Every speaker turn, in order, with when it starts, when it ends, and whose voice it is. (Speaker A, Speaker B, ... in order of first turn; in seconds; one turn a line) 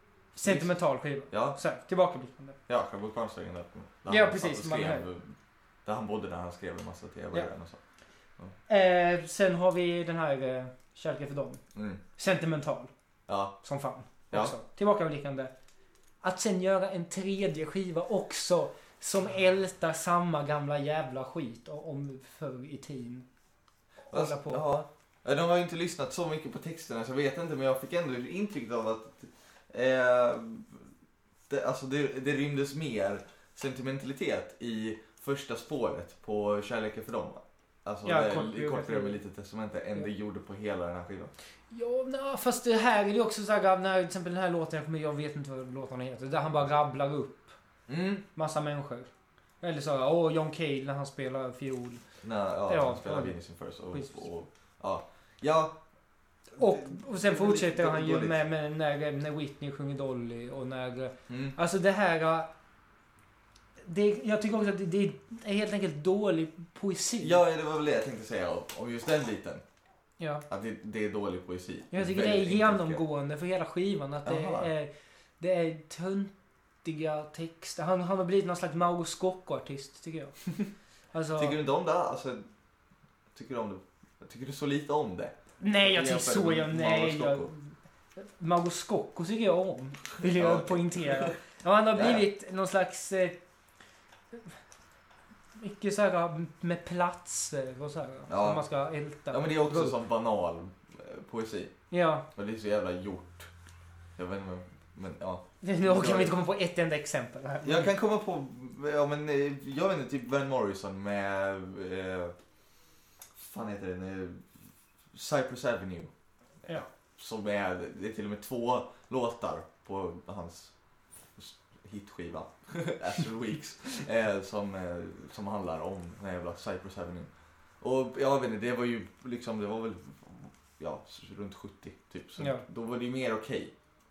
Speaker A: 0.3-2.6
Speaker B: 0.4-0.8
Speaker B: 1.3-1.6
Speaker B: 2.7-7.8
Speaker A: 4.1-5.0
Speaker A: 8.7-11.6
Speaker B: 11.7-12.0
Speaker A: 12.2-12.9
Speaker B: 13.3-13.5
Speaker A: 13.6-15.5
Speaker B: 14.3-14.6
Speaker A: 16.2-23.3
Speaker A: 24.1-24.6
Speaker B: 24.1-30.9
Speaker B: 31.5-41.3
Speaker A: 38.0-39.2
Speaker A: 41.7-47.6
Speaker B: 47.9-48.2
Speaker A: 48.3-49.1
Speaker A: 49.6-52.0
Speaker B: 52.2-55.8
Speaker A: 52.7-53.4
Speaker A: 53.9-54.2
Speaker B: 56.6-58.4
Speaker A: 56.6-62.5
Speaker B: 61.3-61.5
Speaker A: 63.8-67.4
Speaker B: 67.2-69.6
Speaker A: 70.2-70.4
Speaker B: 70.5-73.0
Speaker A: 71.9-76.3
Speaker B: 74.2-74.7
Speaker A: 76.8-80.4
Speaker A: 81.1-81.5
Speaker B: 81.4-82.4
Speaker B: 83.3-87.5
Speaker A: 85.6-93.4
Speaker B: 90.3-91.3
Speaker B: 91.9-92.2
Speaker A: 94.3-94.6
Speaker A: 95.6-99.9
Speaker B: 98.3-98.6
Speaker B: 99.3-101.7
Speaker A: 101.9-102.3
Speaker B: 102.3-103.5
Speaker B: 104.2-106.3
Speaker A: 105.6-107.9
Speaker B: 107.6-112.3
Speaker B: 113.4-114.4
Speaker B: 115.1-116.1
Speaker B: 116.6-120.7
Speaker B: 121.4-127.3
Speaker B: 127.8-133.7
Speaker A: 132.4-132.6